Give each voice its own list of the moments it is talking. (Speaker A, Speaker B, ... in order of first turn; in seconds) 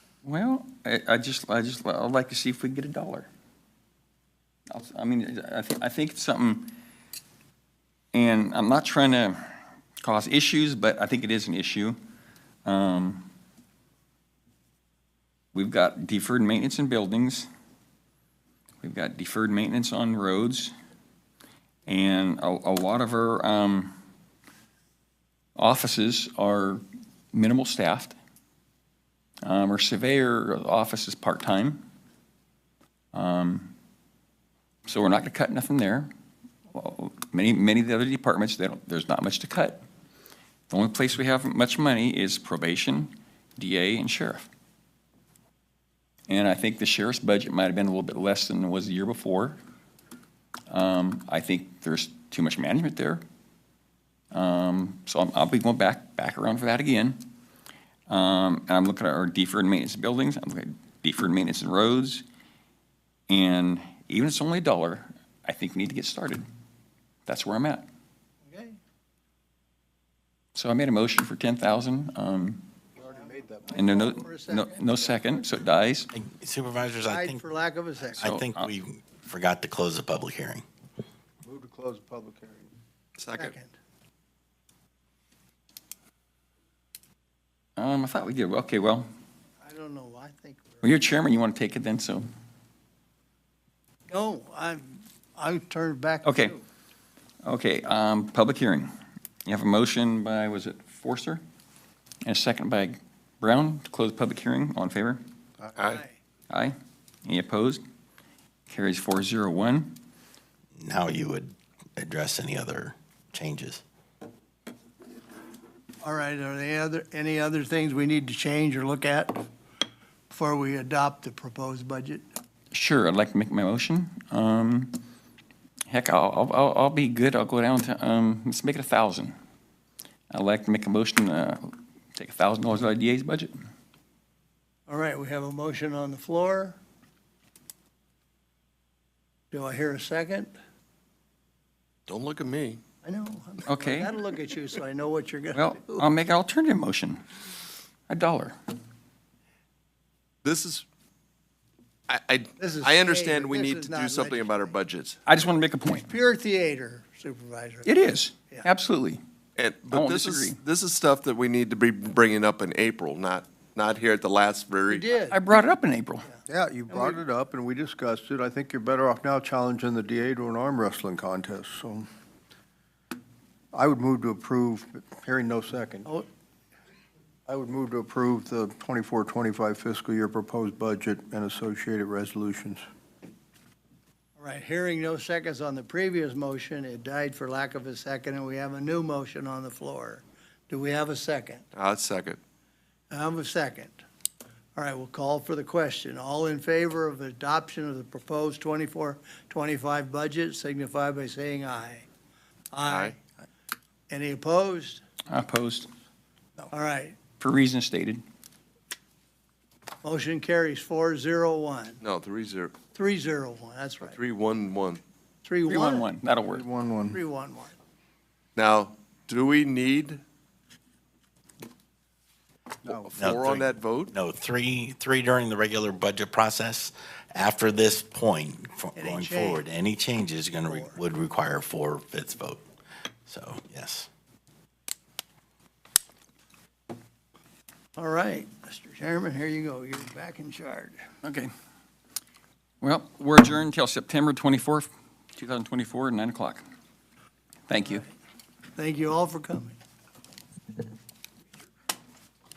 Speaker A: 0.2-3.3, 4.7-6.7, 8.1-12.0, 12.6-13.3, 15.5-17.5, 18.8-20.7, 21.9-23.9, 25.6-28.1, 29.4-31.9, 33.1-33.7, 34.9-36.1, 36.7-39.8, 40.7-44.5, 46.3-49.6, 50.7-53.2, 54.3-57.3, 58.1-62.2, 63.3-66.4, 67.2-67.8, 70.5-72.6, 73.7-76.1, 78.2-78.7, 87.8-89.1, 90.8-92.3, 96.2-96.5, 97.4-98.9, 99.4-101.4, 102.2-105.2, 107.2-107.8, 108.7-110.0, 122.7-125.0, 125.9-129.3, 130.3-133.5, 143.7-144.1, 145.5-147.2, 148.1-148.6, 155.2-156.1, 157.8-159.2, 159.9-160.6, 165.3-166.3, 205.3-205.9, 207.4-208.2, 215.7-216.6, 241.2-241.5, 242.8-246.6, 247.7-248.0
Speaker B: 68.5-68.8, 73.7-75.4, 77.1-78.3, 83.3-83.7, 89.6-90.9, 94.1-96.6, 105.9-106.1, 116.0-119.5, 120.3-122.2, 134.9-136.8, 139.5-140.5, 143.0-146.1, 152.6-154.7, 155.9-157.9, 164.9-165.4, 184.4-191.6, 193.1-194.0, 194.8-202.1, 202.7-203.2, 204.1-205.0, 206.7-207.2, 210.0-212.0, 212.9-214.2, 215.4-216.1, 217.1-217.8, 228.9-229.6, 230.7-231.0, 237.9-241.0, 248.7-249.8
Speaker C: 73.0-74.2, 81.4-82.7, 166.5-172.1, 173.7-176.1, 177.5-182.8, 216.5-217.2, 222.8-223.1
Speaker D: 76.1-77.4, 78.2-80.6, 110.8-113.8, 223.2-232.6, 233.3-234.1
Speaker E: 83.2-83.5, 105.8-106.0, 142.1-142.8, 150.4-150.8, 152.1-155.2, 159.6-165.1, 191.7-192.4, 202.8-203.1, 212.0-212.8, 214.1-215.0, 218.6-220.2, 222.9-224.1